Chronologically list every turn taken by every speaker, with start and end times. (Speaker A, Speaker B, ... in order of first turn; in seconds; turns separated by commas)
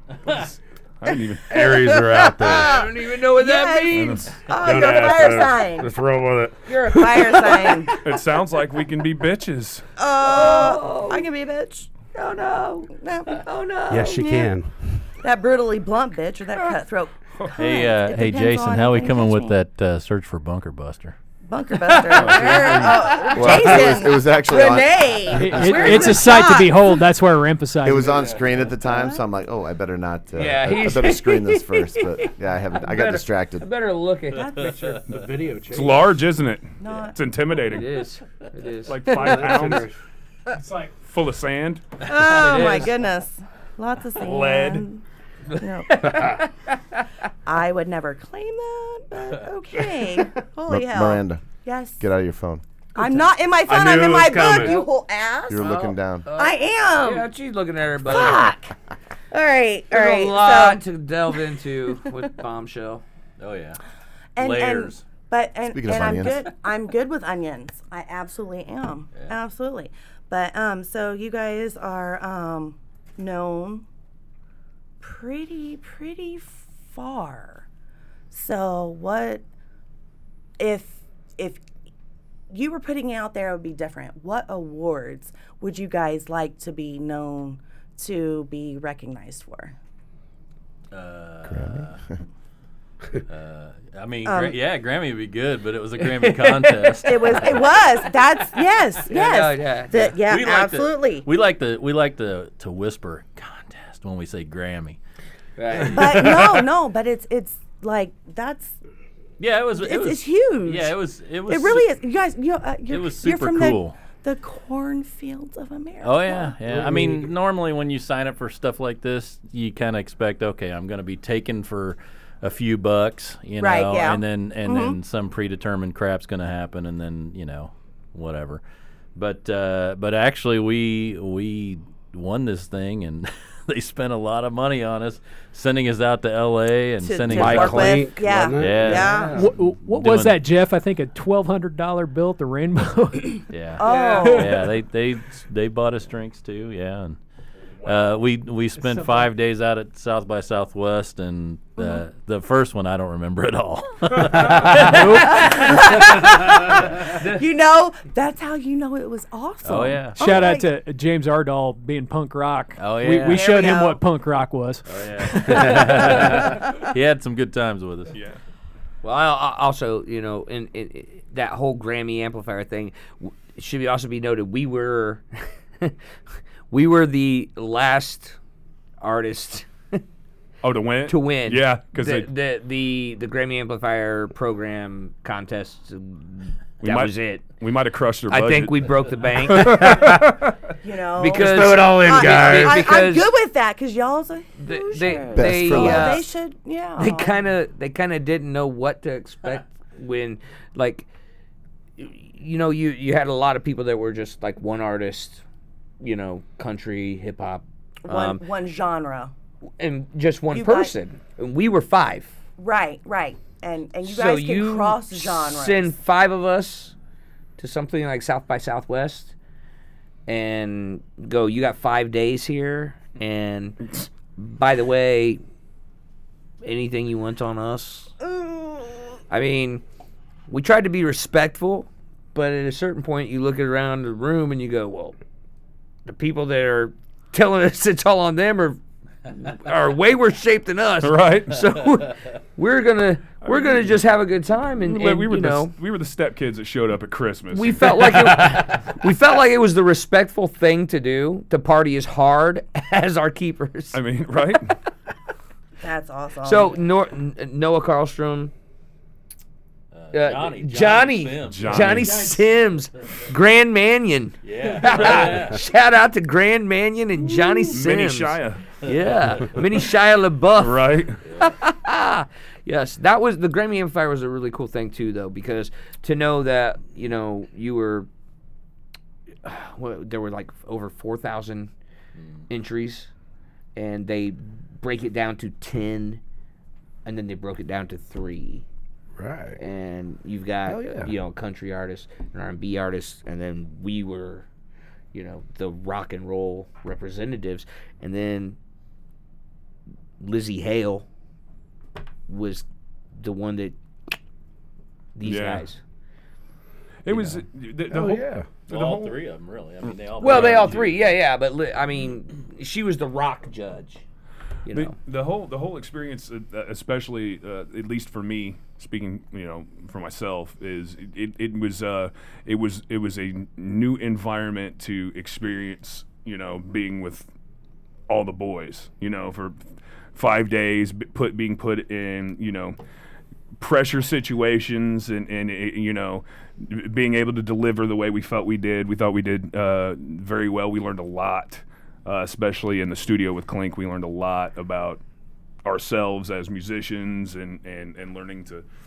Speaker A: 0.3-1.5, Speaker B: 1.5-2.8, Speaker C: 1.5-5.9, Speaker D: 2.4-4.3, Speaker A: 3.9-4.4, Speaker B: 4.6-8.0, Speaker C: 6.7-8.0, Speaker A: 8.0-9.8, Speaker C: 10.0-11.9, Speaker D: 10.2-11.3, Speaker D: 12.1-14.2, Speaker C: 12.9-13.4, Speaker B: 13.9-15.0, Speaker C: 13.9-14.5, Speaker C: 15.2-19.6, Speaker E: 17.6-21.1, Speaker C: 21.5-27.1, Speaker E: 22.2-22.7, Speaker D: 22.4-22.9, Speaker B: 22.4-22.9, Speaker F: 23.3-25.9, Speaker D: 25.3-26.5, Speaker G: 25.4-28.2, Speaker F: 27.8-33.7, Speaker C: 28.9-29.2, Speaker D: 30.3-35.0, Speaker C: 34.3-35.0, Speaker E: 34.6-35.0, Speaker B: 35.0-36.2, Speaker A: 35.7-38.0, Speaker C: 36.8-37.1, Speaker D: 37.7-39.7, Speaker A: 38.9-39.9, Speaker B: 39.1-39.9, Speaker A: 41.0-41.8, Speaker C: 42.0-45.0, Speaker D: 42.4-42.8, Speaker A: 44.2-44.8, Speaker D: 45.6-46.5, Speaker C: 45.6-46.4, Speaker C: 47.5-52.0, Speaker F: 50.7-51.4, Speaker F: 52.0-52.6, Speaker C: 52.9-55.7, Speaker B: 53.7-54.8, Speaker F: 55.5-56.2, Speaker D: 55.6-58.5, Speaker C: 56.3-57.3, Speaker C: 58.0-58.7, Speaker C: 59.3-60.8, Speaker D: 59.9-63.0, Speaker E: 63.4-63.8, Speaker C: 64.3-73.8, Speaker E: 64.4-65.0, Speaker F: 65.7-66.3, Speaker C: 75.0-77.7, Speaker C: 78.3-79.4, Speaker C: 80.6-81.6, Speaker C: 82.5-89.7, Speaker E: 90.9-92.0, Speaker F: 91.5-92.2, Speaker E: 93.3-97.7, Speaker C: 94.2-94.6, Speaker D: 96.1-96.8, Speaker C: 97.0-101.3, Speaker D: 99.1-100.2, Speaker E: 100.2-105.0, Speaker D: 105.6-106.2, Speaker E: 105.7-106.6, Speaker C: 105.9-108.7, Speaker E: 109.4-111.9, Speaker C: 109.8-116.5, Speaker E: 112.9-114.0, Speaker E: 116.0-128.6, Speaker B: 116.7-117.3, Speaker C: 123.6-125.0, Speaker E: 129.2-140.4, Speaker C: 137.0-139.4, Speaker B: 137.3-139.6, Speaker G: 139.3-143.4, Speaker E: 143.5-147.2, Speaker C: 143.8-144.5, Speaker A: 143.9-144.4, Speaker E: 147.8-156.8, Speaker G: 148.8-149.3, Speaker G: 154.5-155.8, Speaker C: 155.2-160.7, Speaker E: 159.6-160.6, Speaker G: 160.2-166.3, Speaker E: 162.8-163.5, Speaker C: 163.3-164.0, Speaker E: 164.8-168.1, Speaker A: 168.1-168.4, Speaker D: 169.0-175.9, Speaker D: 176.7-178.4, Speaker D: 179.0-180.0, Speaker A: 180.6-182.3, Speaker D: 181.1-187.5, Speaker A: 186.8-188.9, Speaker D: 188.3-190.1, Speaker A: 189.4-190.3, Speaker C: 190.8-197.3, Speaker D: 191.2-193.3, Speaker B: 191.3-192.9, Speaker D: 194.6-196.3, Speaker F: 195.3-196.2, Speaker D: 197.0-201.1, Speaker D: 202.0-205.4, Speaker D: 206.0-208.4, Speaker C: 208.0-209.3, Speaker D: 209.8-212.3, Speaker C: 210.5-210.9, Speaker C: 212.6-215.9, Speaker D: 214.0-216.9, Speaker D: 217.6-219.3, Speaker D: 220.3-225.4, Speaker D: 226.6-228.1, Speaker C: 228.3-228.8, Speaker D: 229.3-229.8, Speaker D: 230.5-235.2, Speaker D: 236.1-245.7, Speaker A: 241.0-241.6, Speaker A: 243.4-244.0, Speaker A: 244.8-248.4, Speaker D: 247.5-254.0, Speaker A: 253.9-254.7, Speaker C: 255.8-256.7, Speaker D: 256.4-258.5, Speaker E: 259.9-262.1, Speaker D: 260.1-278.1, Speaker A: 261.4-262.3, Speaker E: 264.4-265.6, Speaker A: 267.7-268.6, Speaker A: 270.6-271.2, Speaker E: 271.2-271.5, Speaker D: 279.4-281.7, Speaker E: 282.2-282.4, Speaker D: 282.5-283.1, Speaker D: 283.8-286.2, Speaker D: 287.0-288.6, Speaker B: 289.2-289.6, Speaker D: 289.6-294.4, Speaker B: 290.7-291.1, Speaker D: 295.1-298.6, Speaker D: 300.2-301.0, Speaker D: 302.3-302.6, Speaker D: 303.2-303.7, Speaker D: 305.1-305.8, Speaker A: 305.2-305.7, Speaker A: 307.0-309.2, Speaker D: 307.1-307.4, Speaker B: 307.9-308.5, Speaker E: 308.7-311.0, Speaker D: 310.2-314.0, Speaker A: 310.2-310.7, Speaker D: 314.6-314.9, Speaker A: 314.7-327.3, Speaker A: 328.1-329.6, Speaker A: 330.1-332.8, Speaker A: 333.6-345.0, Speaker A: 345.6-348.6